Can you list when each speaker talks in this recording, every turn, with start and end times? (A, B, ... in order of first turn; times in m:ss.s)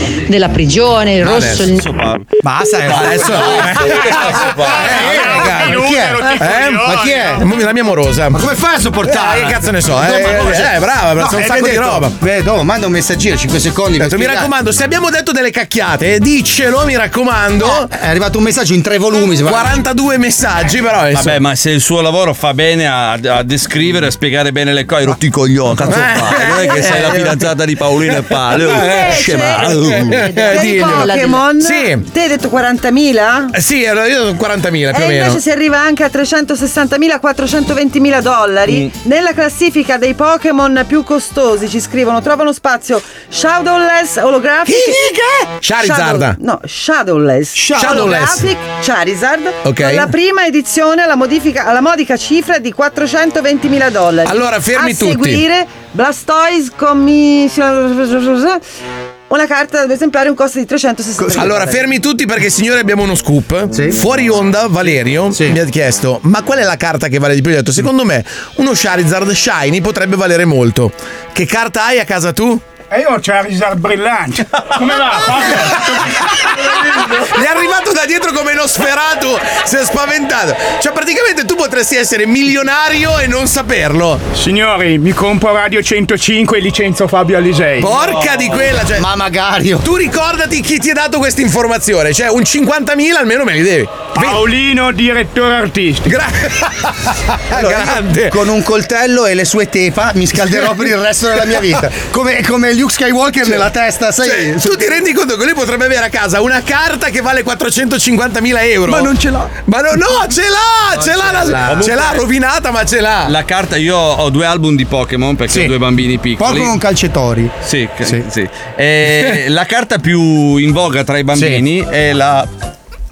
0:00.3-0:01.9 A
0:01.2-0:01.6 B
0:01.5-0:02.2 C
0:02.4-0:07.5 D
0:02.9-0:05.1 C
0:02.9-0:05.8 B
0:05.0-0:07.4 E
0:06.4-0:08.4 B
0:08.3-0:14.5 D
0:09.0-0:12.1 B
0:14.0-0:17.9 B
0:17.6-0:19.8 D
0:19.4-0:21.4 B
0:21.1-0:30.3 C
0:25.9-0:27.4 B
0:28.6-0:32.1 B
0:28.7-0:33.5 F
0:30.4-0:31.4 A
0:33.5-0:35.4 B
0:34.9-0:45.1 F
0:38.6-0:38.9 C
0:44.6-0:46.4 B
0:45.7-0:58.6 F
0:47.6-0:48.5 B
0:49.6-0:50.1 B
0:54.2-0:55.4 B
0:59.3-1:01.8 F
1:01.2-1:01.6 D
1:01.3-1:12.6 B
1:03.7-1:04.0 D
1:05.3-1:05.6 D
1:12.9-1:17.1 E
1:17.2-1:24.2 B
1:24.3-1:28.0 E
1:27.8-1:29.1 B
1:28.1-1:28.6 C
1:28.9-1:29.8 D
1:29.8-1:34.5 B
1:34.1-1:36.1 E
1:36.0-1:38.4 B
1:37.5-1:44.9 D
1:44.2-1:53.3 B
1:48.9-1:49.5 D
1:51.0-1:52.2 C
1:53.2-1:56.7 C
1:55.5-1:55.8 D
1:56.4-1:58.2 D
1:57.6-2:02.5 C
2:01.3-2:01.6 D